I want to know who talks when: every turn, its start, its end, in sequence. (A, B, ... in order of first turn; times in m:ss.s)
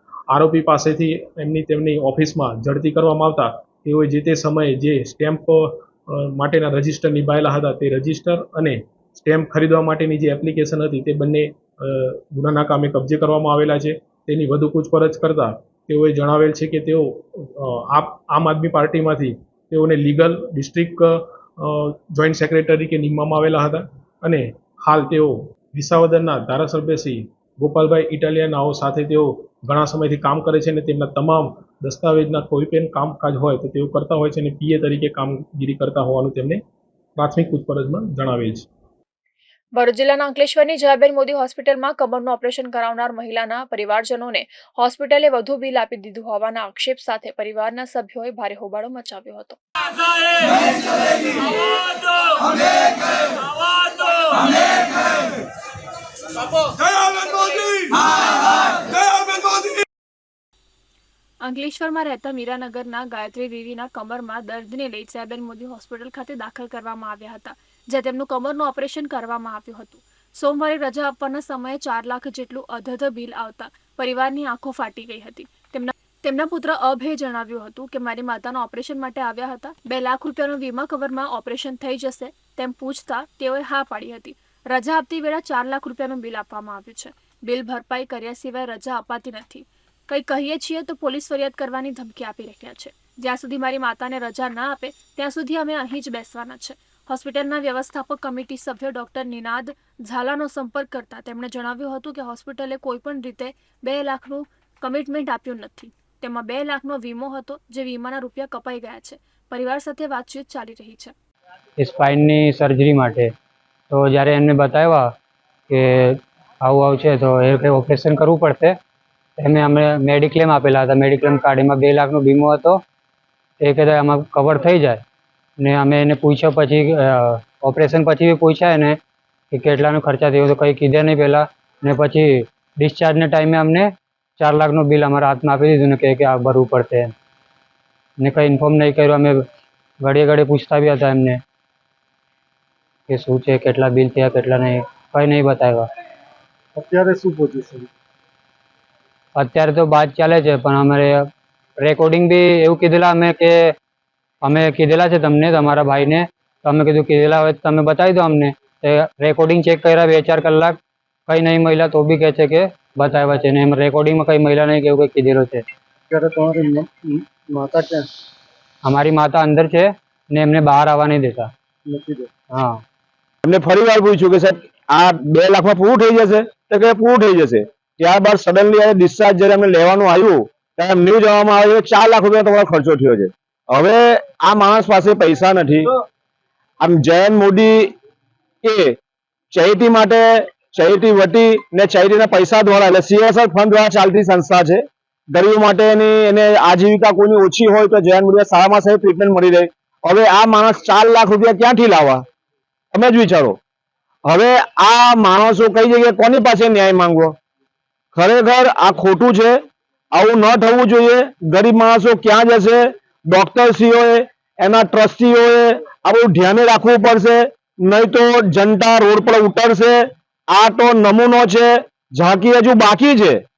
0:00.3-0:36.6 A
0:37.2-0:38.7 A
0:39.8-0:49.6 B
1:01.4-1:51.1 B
1:51.8-1:53.3 C
1:53.9-1:55.1 C
1:55.7-1:58.8 C
1:59.4-2:02.8 C
2:03.6-2:05.0 C
2:05.6-2:09.0 C
2:09.5-2:17.1 C
2:18.2-2:19.4 C
2:20.0-2:21.4 C
2:23.1-2:25.9 C
2:26.8-2:27.9 D
2:29.4-2:33.7 C
2:34.4-2:45.6 C
2:46.1-2:48.0 D
2:48.8-2:51.5 C
2:51.8-2:52.3 D
2:52.5-2:52.8 C
2:53.4-3:05.9 E
3:06.8-3:07.9 E
3:08.6-3:09.0 E
3:09.5-3:14.8 E
3:15.3-3:22.2 E
3:22.9-3:23.6 E
3:24.3-3:27.4 E
3:28.2-3:29.6 E
3:30.1-3:43.4 E